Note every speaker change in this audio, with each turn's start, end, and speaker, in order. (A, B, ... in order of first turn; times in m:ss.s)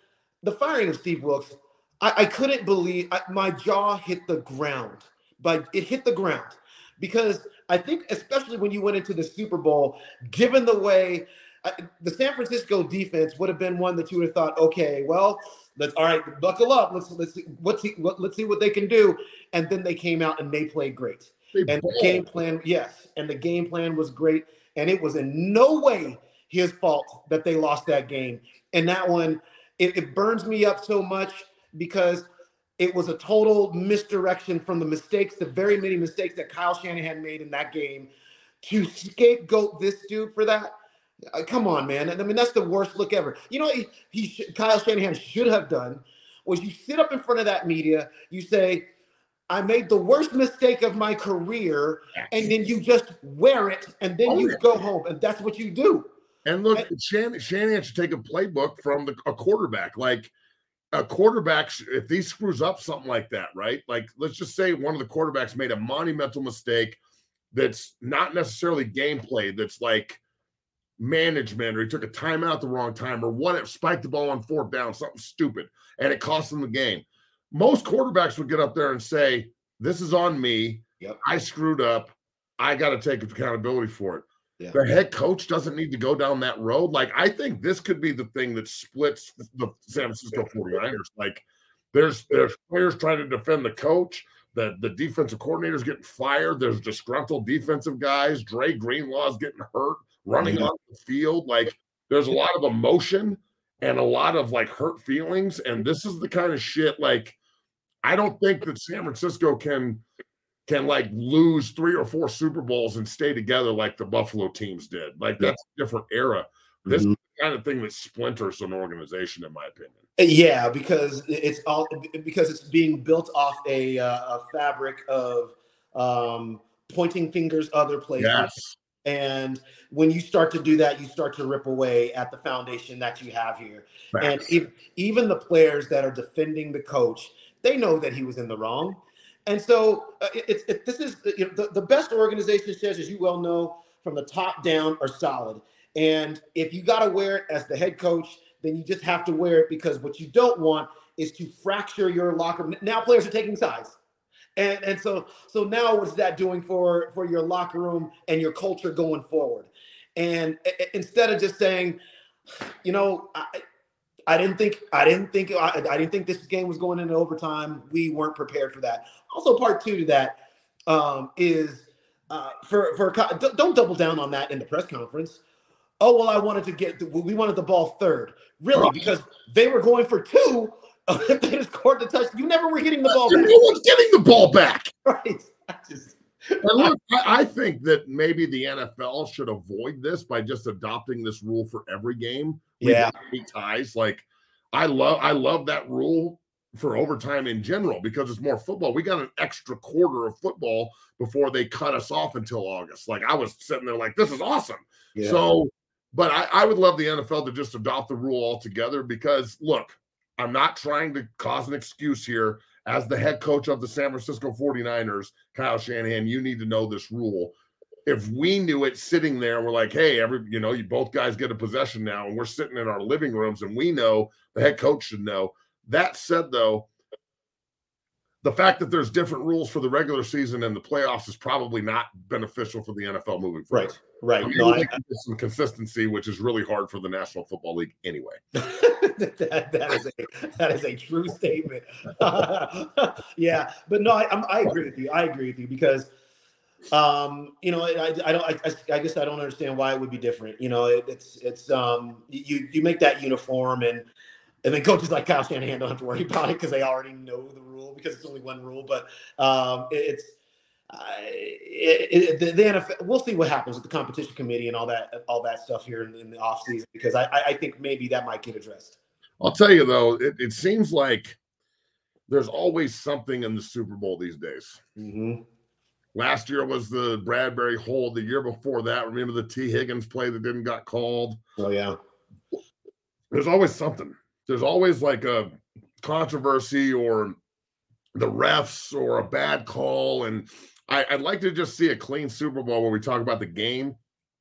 0:00.4-0:32.3 A
0:21.6-0:22.3 B
0:32.8-0:38.1 A
0:38.6-0:40.7 A
0:41.3-0:48.9 A
0:49.5-0:56.1 A
0:52.2-0:52.5 B
0:54.3-0:54.6 B
0:56.4-1:00.3 B
1:00.9-1:07.0 B
1:07.5-1:10.2 B
1:11.0-1:47.4 B
1:40.4-1:40.7 A
1:48.0-1:50.0 B
1:50.7-2:00.0 B
1:56.9-1:57.2 A
2:00.2-2:34.0 A
2:08.2-2:08.8 B
2:34.6-2:42.0 A
2:42.8-2:43.6 A
2:44.3-2:55.4 A
2:56.0-3:03.6 A
2:58.7-2:59.1 B
3:03.1-3:04.9 B
3:05.0-3:06.9 A
3:06.6-3:37.5 B
3:12.8-3:13.1 A
3:25.2-3:25.4 A
3:38.1-3:46.9 B
3:48.4-3:58.4 B
3:53.7-3:54.9 A
3:58.6-4:06.1 A
4:06.9-4:14.1 A
4:14.6-4:20.4 A
4:20.9-4:29.0 A
4:29.4-4:31.4 B
4:32.3-4:34.8 B
4:35.0-4:35.4 A
4:36.2-4:41.4 B
4:41.6-4:42.0 A
4:43.3-4:47.4 B
4:48.2-4:54.0 B